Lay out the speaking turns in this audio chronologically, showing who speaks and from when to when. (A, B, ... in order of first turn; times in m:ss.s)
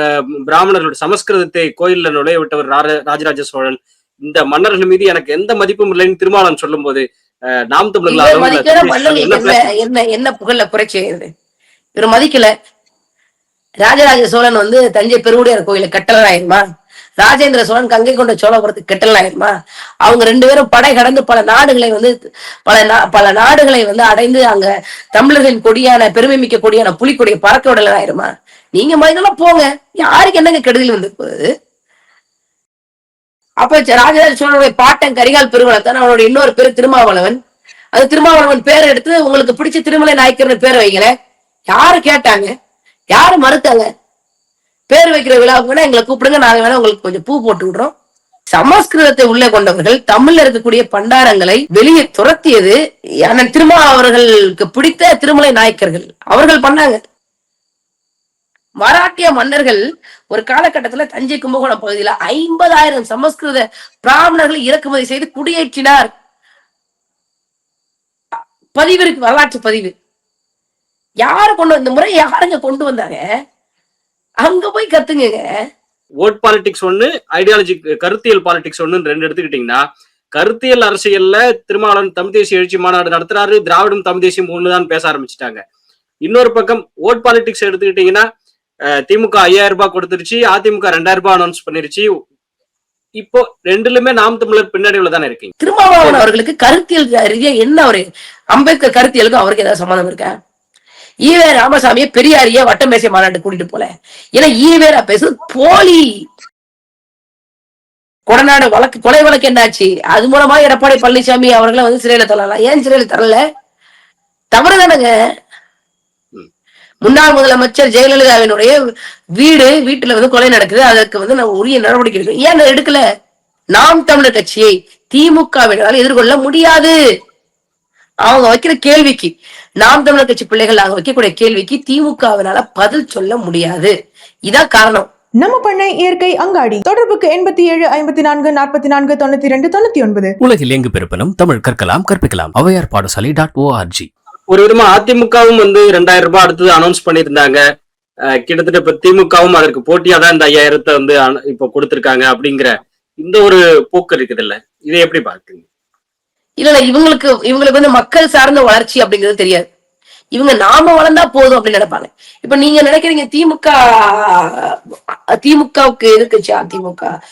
0:00.5-0:07.0 A
0:07.7-0:09.7 A
0:08.1-0:11.3 B
0:12.0-0:12.5 B
0:13.8-0:16.6 B
0:17.2-0:19.5 B
0:20.0-0:22.1 B
0:22.7-0:31.5 B
0:33.6-0:37.4 B
0:37.9-0:41.1 B
0:41.7-0:42.5 B
0:43.1-0:43.8 B
0:44.9-0:47.9 B
0:48.5-0:57.0 B
0:58.8-1:06.1 B
1:08.8-1:09.9 B
1:11.2-1:13.2 B
1:14.4-1:15.5 B
1:16.2-1:19.8 A
1:20.4-1:25.6 A
1:26.3-1:28.2 A
1:29.1-1:32.1 A
1:33.2-1:36.3 A
1:35.6-1:40.3 B
1:41.3-1:46.1 B
1:48.3-1:53.4 B
1:54.5-1:55.1 B
1:57.0-1:58.7 B
1:59.4-2:03.0 B
2:03.8-2:07.0 B
2:08.2-2:13.9 B
2:14.5-2:15.1 B
2:15.4-2:20.4 C
2:20.4-2:24.1 D
2:24.5-2:27.6 A
2:28.4-2:35.7 A
2:36.6-2:39.7 B
2:40.4-2:44.8 B
2:45.4-2:47.1 B